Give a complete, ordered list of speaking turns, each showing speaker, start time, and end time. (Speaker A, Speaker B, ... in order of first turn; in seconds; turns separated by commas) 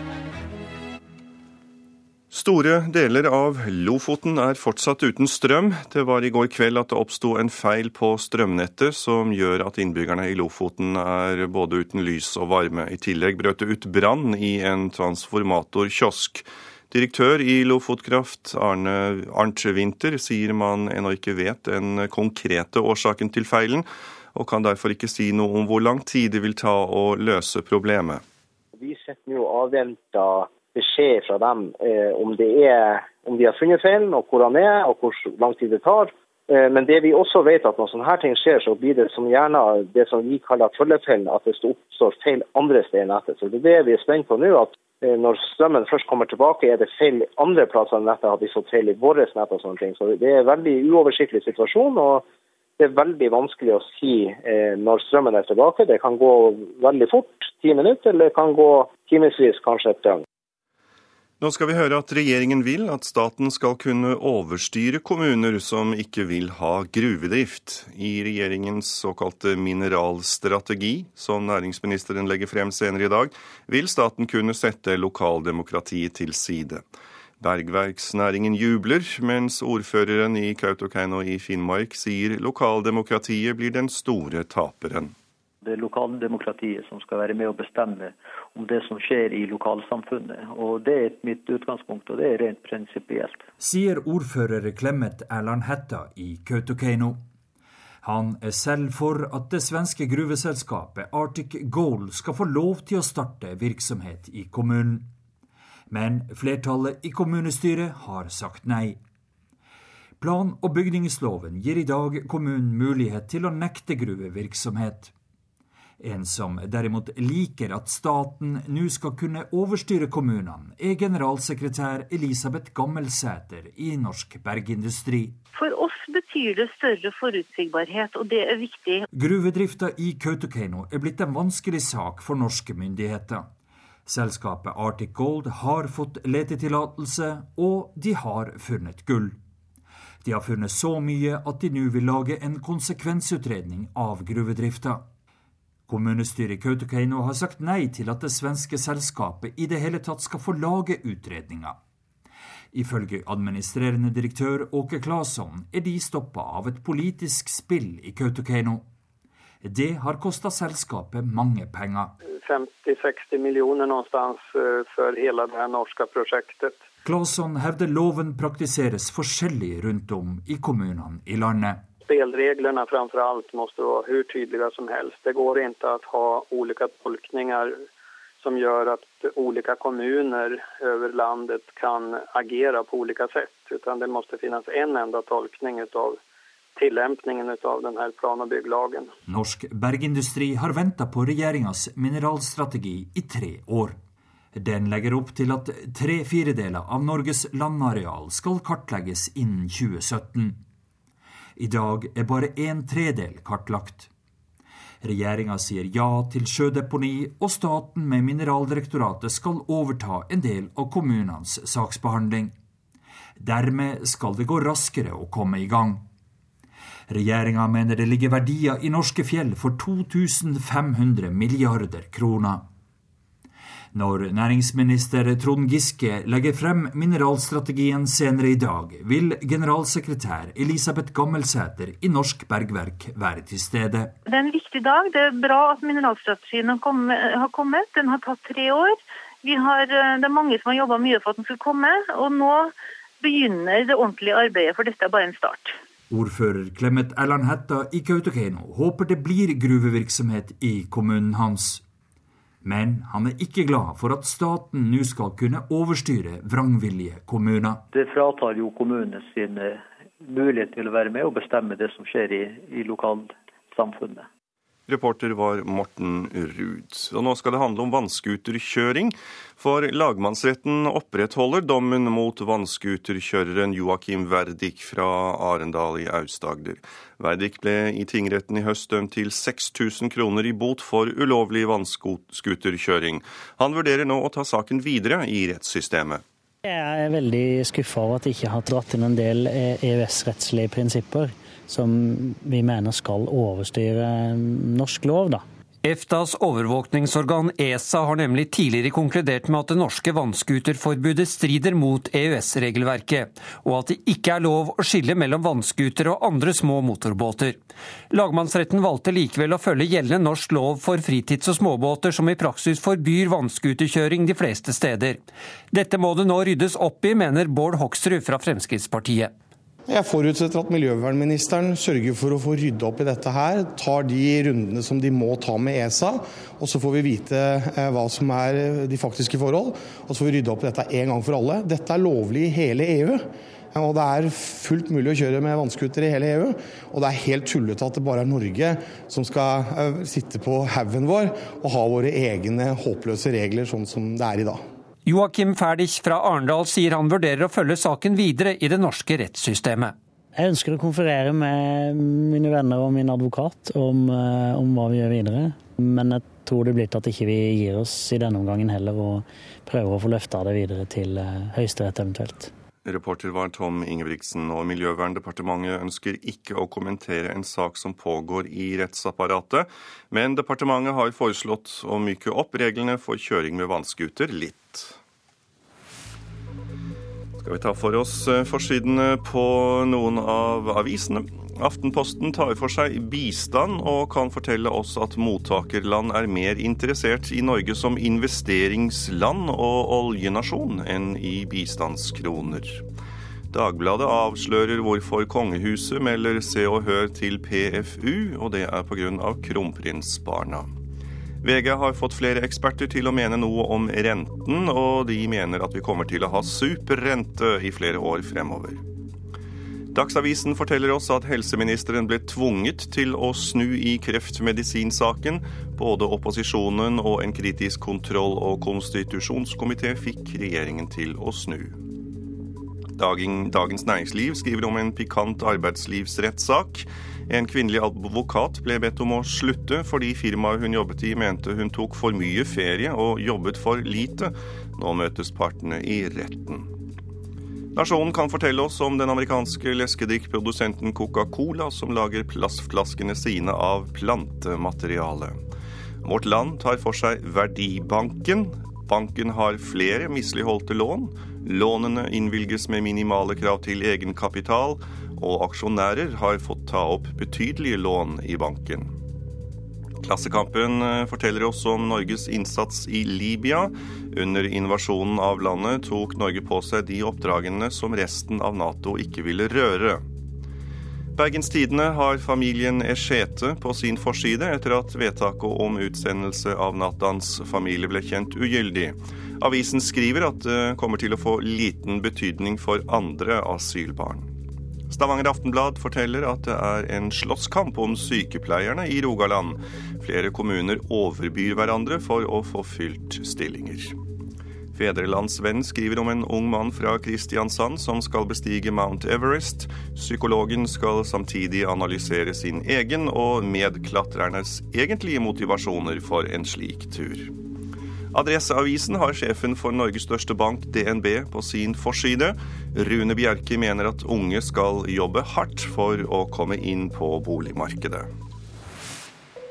Speaker A: 2.3-28.2, Speaker B: 28.8-52.2, Speaker B: 52.8-60.2, Speaker A: 61.4-76.8, Speaker A: 77.4-85.1, Speaker C: 85.6-93.4, Speaker D: 93.6-97.2, Speaker D: 98.0-105.1, Speaker D: 105.9-109.0, Speaker D: 110.2-115.1, Speaker D: 116.0-125.4, Speaker E: 125.5-129.0, Speaker D: 129.1-133.5, Speaker D: 134.1-139.4, Speaker D: 140.2-145.1, Speaker D: 145.9-151.8, Speaker D: 152.7-158.8, Speaker D: 159.6-162.1, Speaker F: 162.4-166.8, Speaker D: 167.0-171.8, Speaker F: 172.1-177.8, Speaker F: 178.4-186.2, Speaker F: 186.8-189.1, Speaker D: 189.3-194.0, Speaker D: 194.5-200.6, Speaker D: 201.6-204.1, Speaker D: 205.0-212.5, Speaker D: 213.4-216.1, Speaker D: 217.1-222.7, Speaker D: 223.9-234.1, Speaker E: 234.2-245.7, Speaker D: 246.1-251.8, Speaker D: 252.6-257.8, Speaker C: 257.9-264.3, Speaker A: 264.9-286.2, Speaker G: 286.6-295.4, Speaker H: 295.8-307.6, Speaker H: 308.1-315.2, Speaker H: 315.7-319.3, Speaker I: 319.9-344.6, Speaker H: 345.1-349.9, Speaker G: 350.3-362.5, Speaker A: 362.8-375.0, Speaker A: 377.4-392.8, Speaker A: 393.5-400.7, Speaker A: 401.4-408.8, Speaker A: 409.9-421.8, Speaker A: 422.9-436.7, Speaker A: 437.7-445.4, Speaker A: 446.0-458.9, Speaker A: 460.0-470.0, Speaker A: 471.1-484.3, Speaker A: 484.9-494.0, Speaker A: 494.7-507.3, Speaker A: 508.1-518.1